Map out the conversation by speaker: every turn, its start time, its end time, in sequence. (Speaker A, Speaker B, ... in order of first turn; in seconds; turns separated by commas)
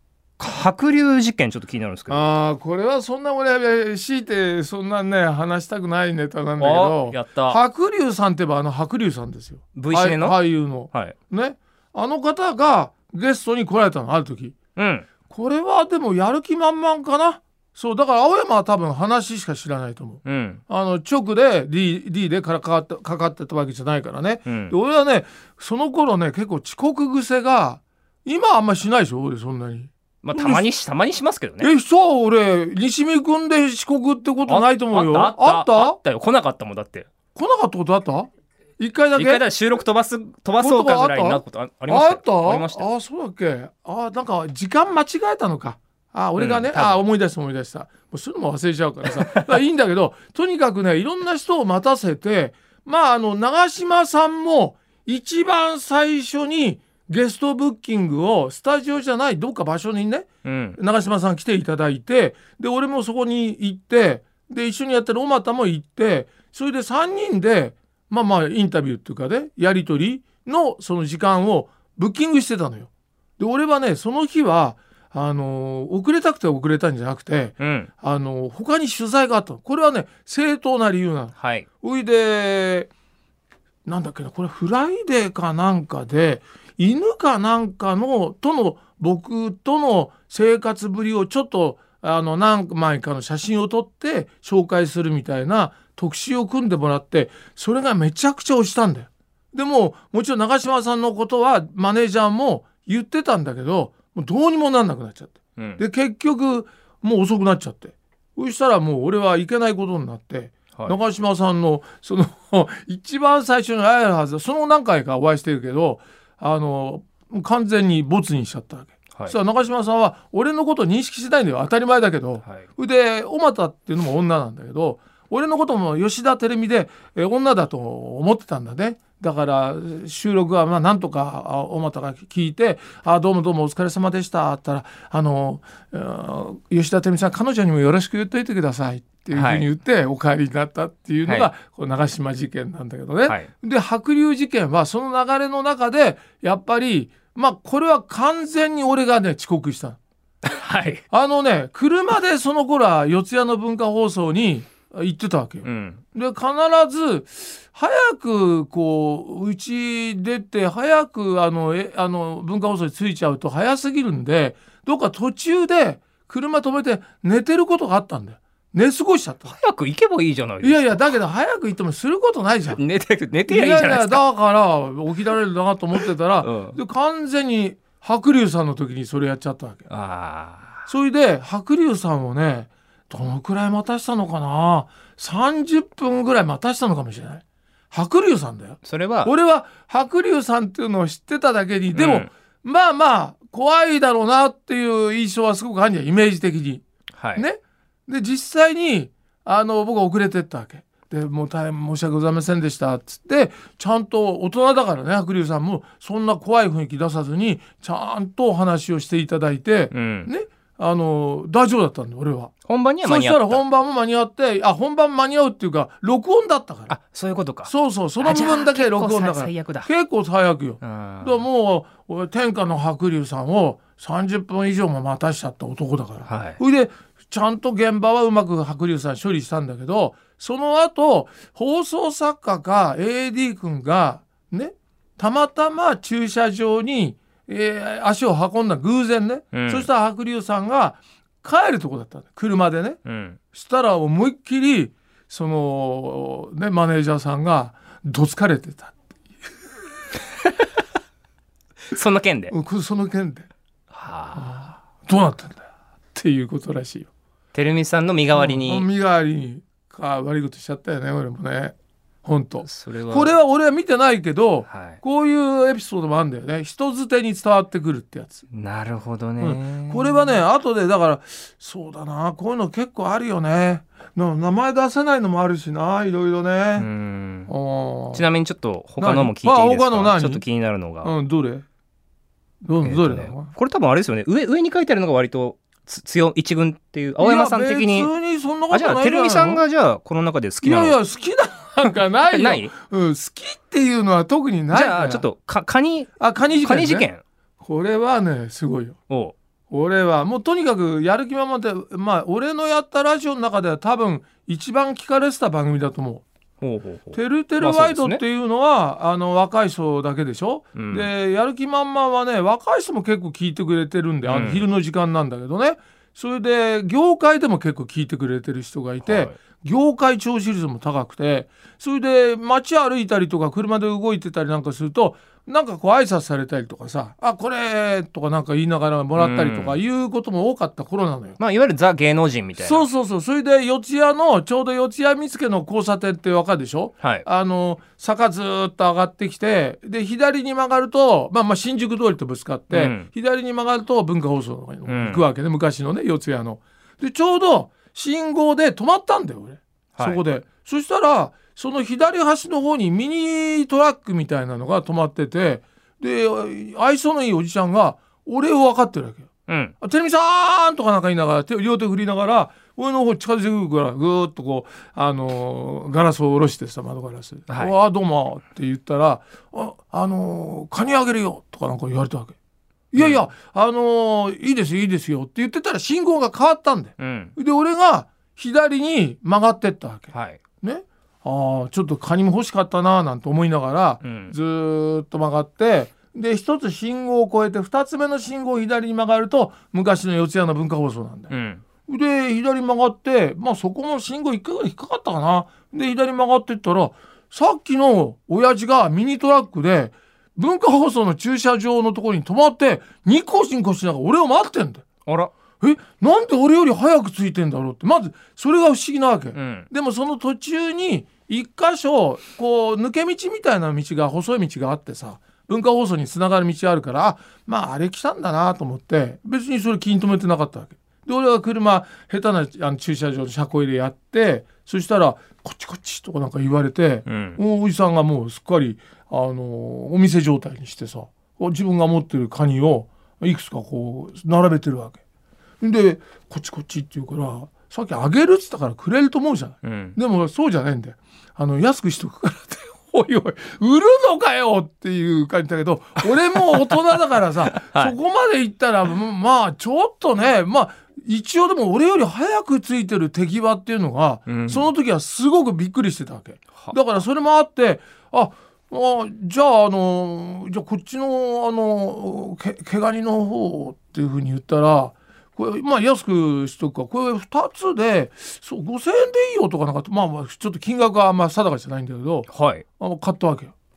Speaker A: 0.4-2.2, Speaker B: 2.1-14.6, Speaker A: 6.6-7.6, Speaker A: 9.7-10.4, Speaker A: 14.8-15.1, Speaker B: 15.3-30.6, Speaker A: 20.2-20.6, Speaker A: 24.4-24.7, Speaker A: 30.2-31.7, Speaker B: 31.6-36.0, Speaker A: 34.5-37.1, Speaker B: 37.3-39.5, Speaker A: 39.1-42.9, Speaker B: 40.6-82.9, Speaker A: 46.4-47.0, Speaker A: 60.4-60.8, Speaker A: 77.6-77.9, Speaker A: 81.3-81.7, Speaker B: 83.8-150.0, Speaker A: 105.6-105.8, Speaker A: 139.3-139.7, Speaker A: 150.4-151.0, Speaker B: 151.1-169.6, Speaker A: 155.6-156.0, Speaker A: 169.5-171.1, Speaker B: 170.6-172.8, Speaker A: 172.7-174.2, Speaker B: 173.5-179.9, Speaker A: 176.0-176.8, Speaker A: 179.9-180.8, Speaker B: 180.8-196.8, Speaker A: 188.8-189.3, Speaker A: 191.9-192.3, Speaker A: 197.1-197.4, Speaker B: 197.3-216.9, Speaker A: 209.9-210.3, Speaker A: 212.7-213.6, Speaker A: 216.9-219.9, Speaker B: 217.6-243.0, Speaker A: 220.8-221.4, Speaker A: 226.3-226.6, Speaker A: 239.5-239.9, Speaker A: 243.0-243.4, Speaker B: 243.5-248.9, Speaker A: 251.9-252.5, Speaker B: 252.5-253.5, Speaker A: 253.9-254.5, Speaker B: 254.3-257.1, Speaker A: 257.5-258.9, Speaker B: 258.3-268.4, Speaker A: 262.6-263.3, Speaker A: 264.7-265.0, Speaker A: 268.5-270.4, Speaker B: 269.4-276.9, Speaker A: 276.8-277.5, Speaker B: 277.5-278.2, Speaker A: 278.1-281.1, Speaker B: 279.0-280.4, Speaker B: 281.0-281.6, Speaker B: 282.6-283.5, Speaker A: 282.8-288.1, Speaker B: 287.2-289.6, Speaker A: 288.7-291.0, Speaker B: 290.6-295.2, Speaker A: 292.3-292.7, Speaker A: 294.7-296.1, Speaker B: 296.2-297.1, Speaker A: 296.6-297.2, Speaker B: 297.6-299.0, Speaker A: 299.1-299.3, Speaker B: 299.7-306.2, Speaker A: 306.6-308.2, Speaker B: 307.1-331.4, Speaker A: 310.8-311.1, Speaker A: 314.2-314.6, Speaker A: 319.0-319.3, Speaker A: 329.2-329.8, Speaker A: 331.4-332.8, Speaker B: 332.6-359.3, Speaker A: 342.7-343.1, Speaker A: 344.9-345.2, Speaker A: 359.5-359.7, Speaker B: 359.8-372.3, Speaker B: 372.9-391.3, Speaker A: 372.9-373.2, Speaker A: 377.0-377.3, Speaker A: 380.1-380.4, Speaker A: 384.0-384.3, Speaker A: 391.3-391.6, Speaker B: 391.9-404.8, Speaker A: 405.1-405.3, Speaker B: 405.6-435.0, Speaker A: 409.3-409.7, Speaker A: 427.1-427.4, Speaker B: 435.6-473.5, Speaker A: 439.6-439.9, Speaker A: 447.6-447.9, Speaker A: 454.3-454.7, Speaker A: 472.3-472.6